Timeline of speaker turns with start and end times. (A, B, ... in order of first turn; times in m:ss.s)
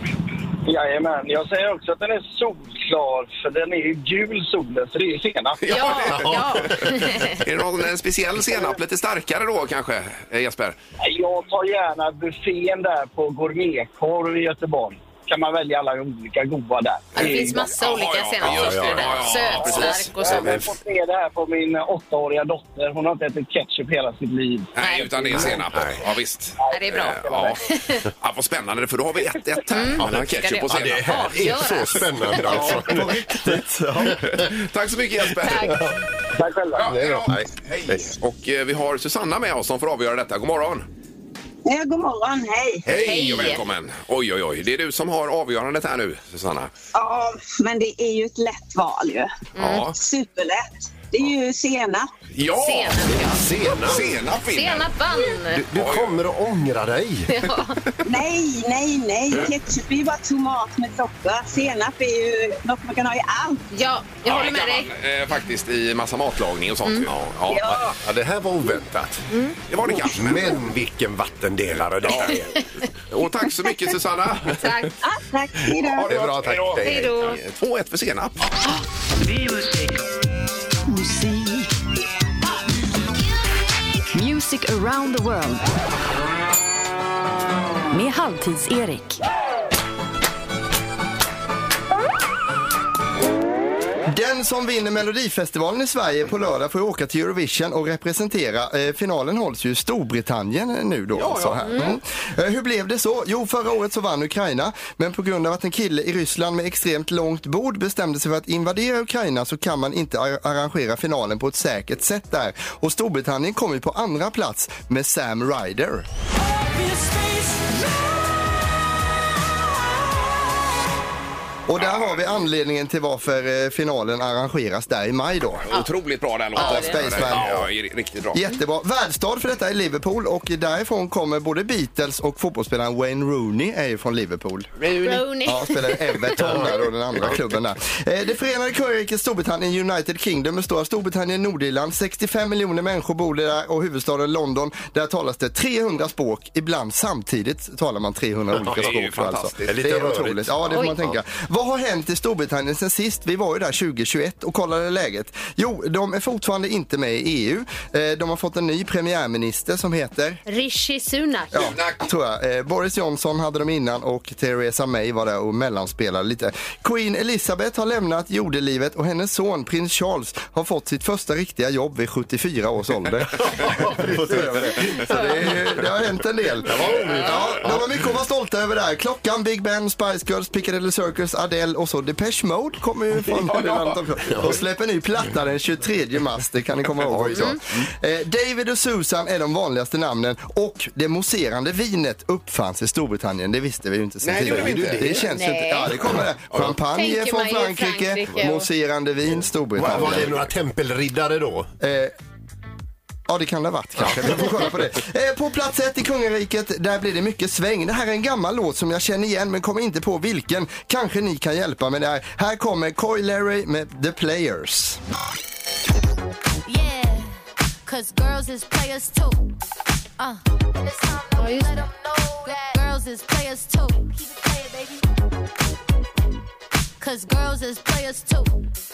0:00.7-0:06.0 A
0:05.6-0:10.8 B
0:05.7-0:07.4 C
0:06.1-0:07.0 D
0:08.4-0:08.8 A
0:11.0-0:17.7 A
0:17.2-0:20.6 C
0:17.2-0:20.0 B
0:18.4-0:20.7 D
0:19.6-0:24.7 A
0:24.8-0:27.6 B
0:24.8-0:25.5 C
0:25.3-0:26.0 D
0:26.6-0:27.6 A
0:26.7-0:28.1 C
0:28.2-0:31.2 B
0:29.7-0:32.8 C
0:30.0-0:33.4 D
0:32.5-0:34.4 E
0:34.0-0:34.5 D
0:34.2-0:35.9 B
0:35.4-0:35.9 C
0:35.5-0:36.0 D
0:36.4-0:36.9 A
0:36.7-0:40.9 B
0:36.8-0:38.1 D
0:41.7-0:42.9 F
0:42.9-0:46.7 B
0:42.9-0:43.7 C
0:47.0-0:49.3 F
0:49.6-0:49.9 C
0:49.6-0:50.0 B
0:49.9-0:52.1 F
0:52.3-0:53.0 B
0:52.5-0:53.5 C
0:53.0-0:54.2 D
0:53.9-0:54.9 B
0:54.5-0:55.6 C
0:55.5-0:57.3 D
0:55.7-0:56.2 B
0:57.3-0:57.8 C
0:58.1-1:03.6 F
1:03.7-1:04.9 C
1:04.2-1:07.8 B
1:07.1-1:09.2 D
1:07.5-1:07.8 F
1:09.7-1:10.7 B
1:09.9-1:12.5 D
1:12.0-1:12.5 B
1:13.1-1:14.9 B
1:14.6-1:14.9 C
1:15.0-1:16.1 F
1:15.8-1:18.5 B
1:16.1-1:17.3 D
1:16.8-1:17.4 C
1:20.9-1:21.7 G
1:24.1-1:25.6 G
1:27.9-1:29.2 G
1:34.1-1:56.1 E
1:41.1-1:41.9 B
2:01.7-2:05.7 E
2:05.7-2:08.4 B
2:06.6-2:07.2 C
2:06.6-2:07.7 E
2:07.3-2:07.7 D
2:08.3-2:14.7 E
2:14.8-2:15.3 B
2:15.0-2:16.6 C
2:15.5-2:40.4 E
2:28.6-2:28.8 D
2:28.6-2:29.8 B
2:29.7-2:30.9 D
2:40.5-2:41.7 C
2:41.5-2:42.0 B
2:41.5-3:20.4 E
2:53.6-2:55.4 D
2:56.7-2:58.0 D
3:03.3-3:04.0 B
3:04.3-3:04.6 D
3:07.0-3:07.8 D
3:07.3-3:07.6 C
3:14.2-3:15.3 B
3:14.4-3:15.2 D
3:15.3-3:15.9 C
3:16.5-3:16.8 B
3:16.9-3:18.7 C
3:19.8-3:21.7 D
3:19.9-3:20.4 B
3:21.8-3:22.1 E
3:23.3-3:35.0 E
3:36.7-3:39.5 H
3:40.2-3:45.0 H
3:41.4-3:41.8 C
3:47.0-3:48.6 H